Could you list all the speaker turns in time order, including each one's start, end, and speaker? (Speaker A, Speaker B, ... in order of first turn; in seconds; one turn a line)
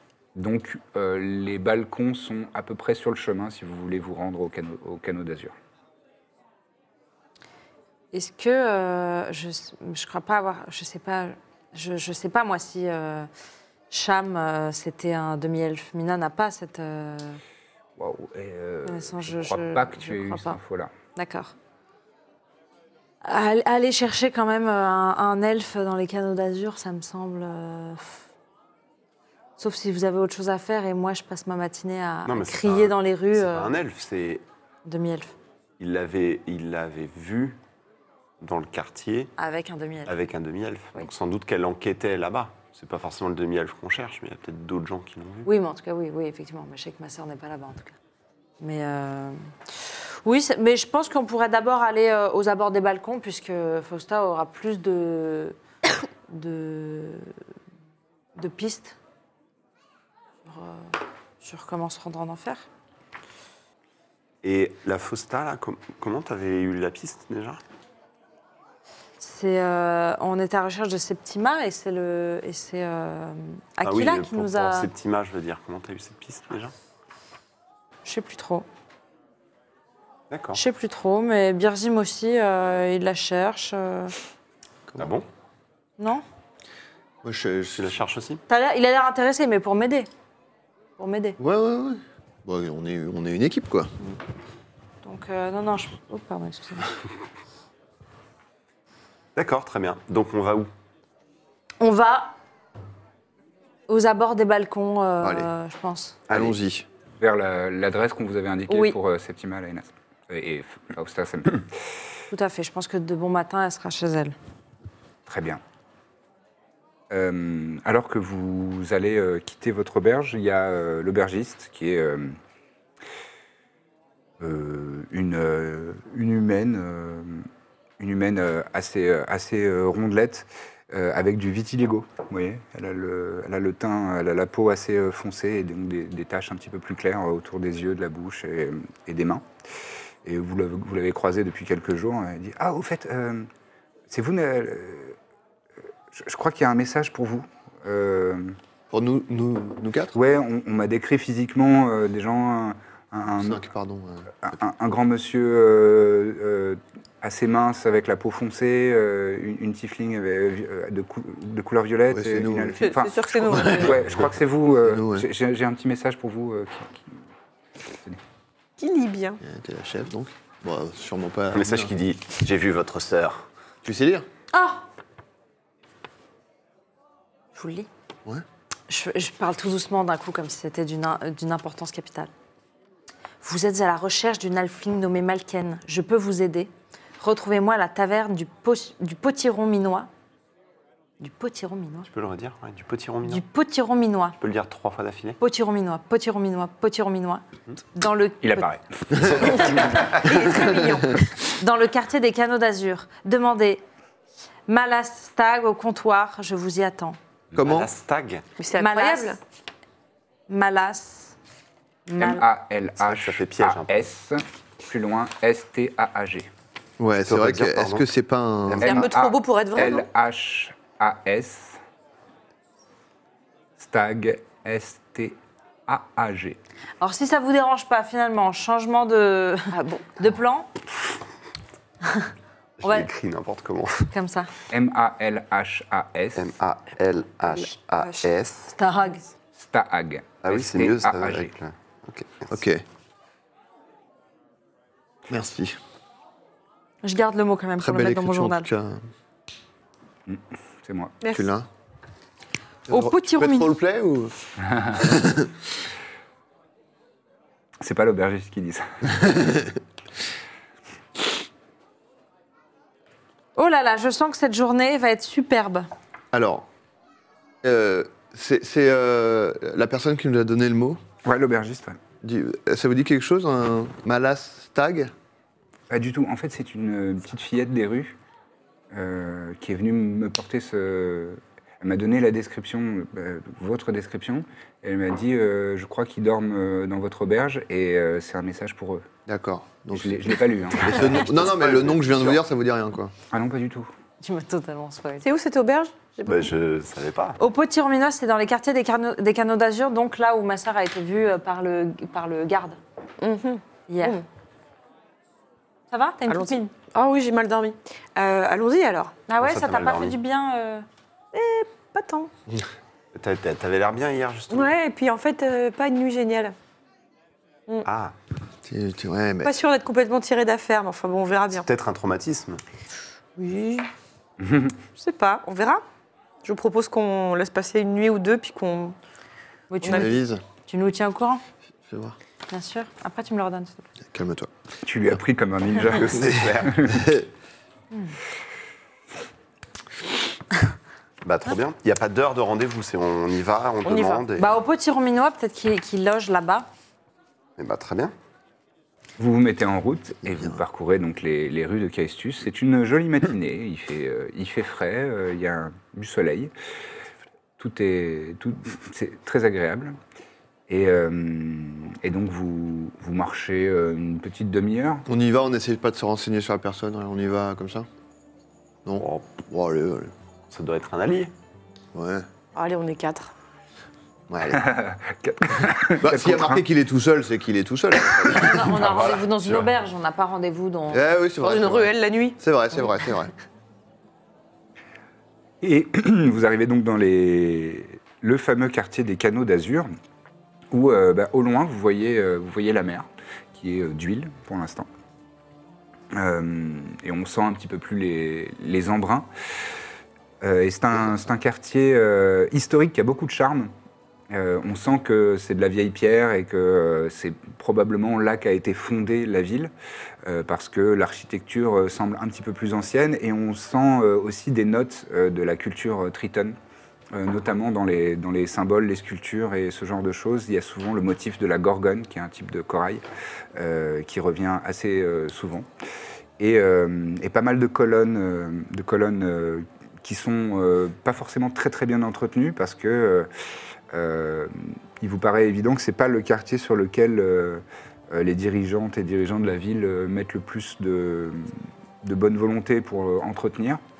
Speaker A: 0.3-5.5
Speaker B: 8.1-13.3
Speaker B: 13.9-17.4
Speaker A: 18.0-20.9
Speaker B: 18.9-20.6
Speaker B: 21.2-21.5
Speaker B: 23.2-28.2
Speaker B: 29.6-33.7
Speaker C: 32.3-34.4
Speaker B: 34.8-35.3
Speaker C: 35.8-37.6
Speaker C: 38.4-39.3
Speaker B: 39.4-40.2
Speaker C: 40.1-45.5
Speaker B: 45.5-48.0
Speaker B: 48.6-55.6
Speaker B: 56.3-57.3
Speaker B: 58.4-59.0
Speaker B: 60.5-62.7
Speaker C: 64.4-67.6
Speaker B: 69.2-74.9
Speaker C: 73.8-76.7
Speaker B: 78.0-78.7
Speaker C: 80.3-80.6
Speaker B: 80.5-84.1
Speaker C: 85.0-85.3
Speaker B: 86.0-86.2
Speaker D: 87.2-88.0
Speaker C: 87.8-88.4
Speaker B: 88.5-90.1
Speaker B: 91.0-91.4
Speaker D: 91.4-93.9
Speaker B: 95.0-97.0
Speaker C: 99.3-100.7
Speaker B: 101.8-102.3
Speaker B: 103.9-106.2
Speaker D: 105.2-105.5
Speaker D: 106.3-106.9
Speaker A: 107.2-111.7
Speaker B: 108.7-109.0
Speaker B: 112.3-114.3
Speaker A: 115.3-115.6
Speaker A: 117.1-122.4
Speaker A: 124.4-127.5
Speaker A: 128.0-139.4
Speaker A: 140.2-143.5
Speaker A: 144.1-145.2
Speaker A: 146.1-148.6
Speaker D: 148.9-150.2
Speaker A: 150.1-153.7
Speaker D: 153.4-154.3
Speaker A: 154.4-167.0
Speaker D: 162.1-162.9
Speaker E: 162.8-164.0
Speaker D: 163.5-164.0
Speaker D: 164.8-165.3
Speaker A: 167.9-168.2
Speaker E: 168.8-169.4
Speaker D: 169.4-171.9
Speaker C: 171.5-173.5
Speaker D: 173.8-174.3
Speaker B: 174.5-174.8
Speaker B: 177.5-177.9
Speaker B: 178.9-182.3
Speaker B: 183.4-190.1
Speaker B: 191.2-192.1
Speaker C: 192.1-193.4
Speaker B: 193.2-194.4
Speaker C: 194.4-195.4
Speaker B: 195.4-198.7
Speaker A: 198.4-200.1
Speaker B: 199.4-203.8
Speaker E: 200.2-201.3
Speaker B: 204.7-207.2
Speaker D: 207.6-207.9
Speaker C: 207.6-208.5
Speaker E: 208.6-209.4
Speaker B: 208.8-209.4
Speaker B: 210.5-211.3
Speaker B: 212.1-212.4
Speaker A: 212.2-216.5
Speaker C: 213.0-213.9
Speaker D: 217.0-219.0
Speaker C: 217.3-218.0
Speaker C: 218.7-219.1
Speaker E: 218.8-220.1
Speaker A: 218.8-221.8
Speaker A: 223.8-226.6
Speaker B: 227.0-230.7
Speaker E: 229.7-230.2
Speaker B: 232.0-232.3
Speaker C: 232.8-234.1
Speaker B: 232.8-233.1
Speaker B: 234.1-234.5
Speaker A: 234.7-236.5
Speaker C: 236.3-238.7
Speaker E: 237.5-238.3
Speaker B: 238.7-239.2
Speaker A: 239.5-241.5
Speaker C: 240.4-242.6
Speaker D: 242.5-242.8
Speaker D: 245.3-245.8
Speaker B: 247.0-248.7
Speaker D: 247.8-249.0
Speaker A: 250.3-251.2
Speaker E: 251.2-251.5
Speaker D: 251.3-251.7
Speaker D: 252.9-254.3
Speaker B: 252.9-253.7
Speaker A: 254.7-255.0
Speaker D: 254.9-255.5
Speaker A: 257.8-259.5
Speaker B: 263.6-265.9
Speaker D: 266.3-266.6
Speaker D: 267.6-271.0
Speaker A: 271.2-272.0
Speaker D: 272.2-275.1
Speaker A: 275.9-278.2
Speaker A: 278.9-289.0
Speaker D: 289.2-293.1
Speaker A: 289.9-291.3
Speaker C: 291.0-292.4
Speaker A: 293.3-293.9
Speaker B: 294.2-295.2
Speaker E: 295.2-296.5
Speaker C: 296.3-297.4
Speaker B: 297.4-302.8
Speaker E: 303.2-304.2
Speaker B: 303.9-304.2
Speaker B: 305.9-306.7
Speaker E: 306.3-309.2
Speaker B: 309.3-310.9
Speaker C: 309.4-310.2
Speaker E: 311.3-312.3
Speaker C: 313.1-314.7
Speaker E: 314.5-316.5
Speaker C: 317.9-318.1
Speaker D: 318.6-319.5
Speaker E: 319.4-321.7
Speaker C: 321.6-322.6
Speaker E: 323.4-323.9
Speaker A: 324.4-324.7
Speaker E: 325.0-325.8
Speaker E: 326.4-329.0
Speaker B: 329.7-330.2
Speaker E: 329.8-330.1
Speaker D: 329.9-330.4
Speaker B: 330.7-331.4
Speaker D: 331.9-332.2
Speaker B: 332.5-333.9
Speaker D: 334.1-334.5
Speaker A: 334.8-337.1
Speaker C: 335.8-336.9
Speaker D: 336.9-337.2
Speaker C: 341.2-344.5
Speaker E: 343.8-344.3
Speaker B: 344.4-346.7
Speaker C: 347.6-348.1
Speaker A: 349.2-356.5
Speaker D: 350.2-350.6
Speaker A: 357.6-360.0
Speaker A: 360.7-365.1
Speaker D: 365.1-367.9
Speaker D: 368.9-370.1
Speaker C: 369.0-369.3
Speaker C: 370.5-371.3
Speaker D: 371.9-372.3
Speaker E: 372.6-373.3
Speaker D: 374.3-374.6
Speaker A: 374.5-376.6
Speaker D: 376.0-378.9
Speaker C: 378.2-379.7
Speaker B: 378.3-381.1
Speaker D: 380.9-383.3
Speaker E: 381.4-382.4
Speaker A: 385.6-389.9
Speaker A: 390.7-394.9
Speaker A: 396.1-399.3
Speaker A: 400.4-403.7
Speaker A: 404.3-409.7
Speaker A: 410.2-416.6
Speaker A: 417.1-423.0
Speaker A: 423.6-425.7
Speaker A: 426.4-433.3
Speaker A: 433.9-441.5
Speaker A: 442.0-443.8